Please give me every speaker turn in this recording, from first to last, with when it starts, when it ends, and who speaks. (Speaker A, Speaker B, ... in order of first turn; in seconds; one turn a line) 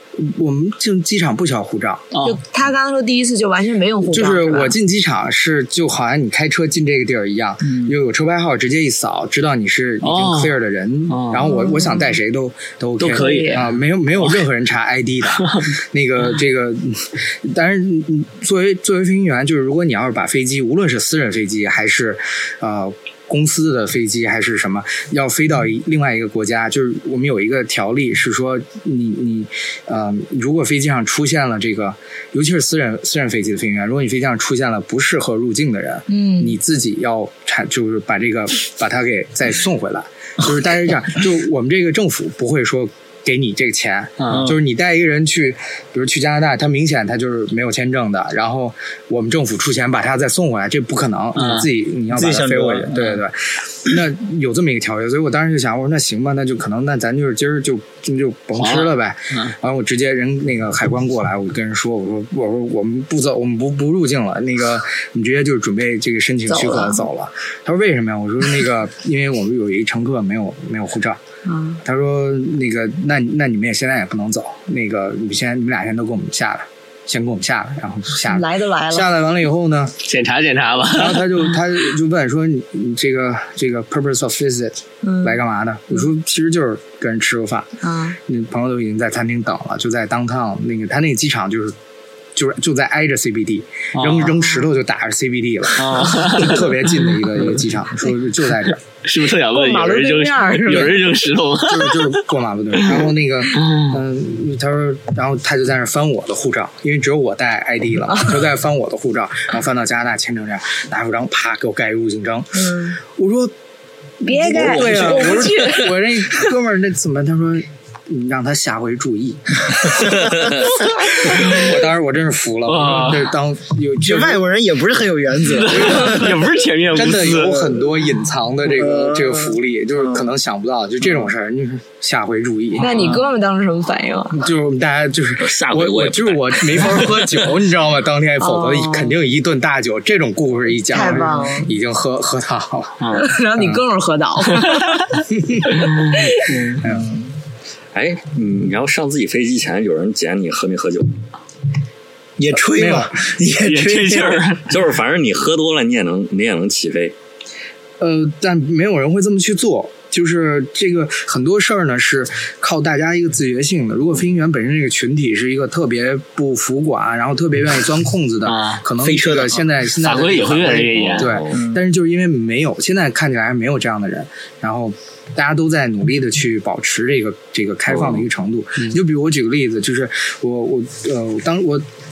Speaker A: 0.2-2.0
Speaker B: 2.1-2.4
Speaker C: 2.2-4.7
Speaker A: 4.1-71.2
Speaker D: 7.6-7.9
Speaker B: 10.0-11.5
Speaker C: 11.4-12.2
Speaker B: 13.0-14.4
Speaker C: 13.1-13.7
Speaker C: 36.1-36.6
Speaker B: 44.2-44.5
Speaker D: 44.3-44.6
Speaker B: 51.3-51.7
Speaker D: 52.1-53.2
Speaker B: 58.6-59.5
Speaker C: 66.5-67.1
Speaker C: 71.5-71.8
Speaker A: 71.8-80.0
Speaker C: 78.3-79.1
Speaker B: 80.0-81.6
Speaker A: 80.9-87.7
Speaker C: 85.0-86.0
Speaker C: 87.8-88.2
Speaker A: 88.2-91.7
Speaker A: 92.3-98.8
Speaker B: 93.9-94.4
Speaker B: 95.7-97.6
Speaker B: 99.0-102.3
Speaker C: 99.5-101.0
Speaker A: 101.6-113.5
Speaker B: 102.8-104.0
Speaker C: 112.5-113.0
Speaker C: 114.2-116.0
Speaker A: 114.2-124.4
Speaker E: 114.7-115.1
Speaker B: 121.3-121.6
Speaker B: 122.7-123.3
Speaker D: 124.0-126.4
Speaker B: 125.4-127.8
Speaker A: 125.7-126.3
Speaker A: 126.9-133.2
Speaker D: 128.6-130.3
Speaker B: 132.8-133.2
Speaker C: 132.8-134.4
Speaker A: 134.3-143.0
Speaker E: 135.4-137.5
Speaker C: 138.4-139.2
Speaker C: 140.9-141.7
Speaker D: 141.0-141.5
Speaker B: 143.0-143.2
Speaker C: 143.1-145.1
Speaker A: 143.6-143.8
Speaker A: 145.3-145.7
Speaker C: 146.1-146.5
Speaker D: 146.5-147.3
Speaker A: 146.8-147.1
Speaker E: 147.9-151.1
Speaker D: 152.4-154.5
Speaker A: 152.7-153.1
Speaker B: 153.6-154.6
Speaker E: 154.7-157.1
Speaker A: 158.0-181.8
Speaker B: 168.4-168.8
Speaker D: 169.0-169.6
Speaker B: 169.8-171.4
Speaker E: 170.8-171.6
Speaker D: 171.5-171.8
Speaker E: 177.9-178.2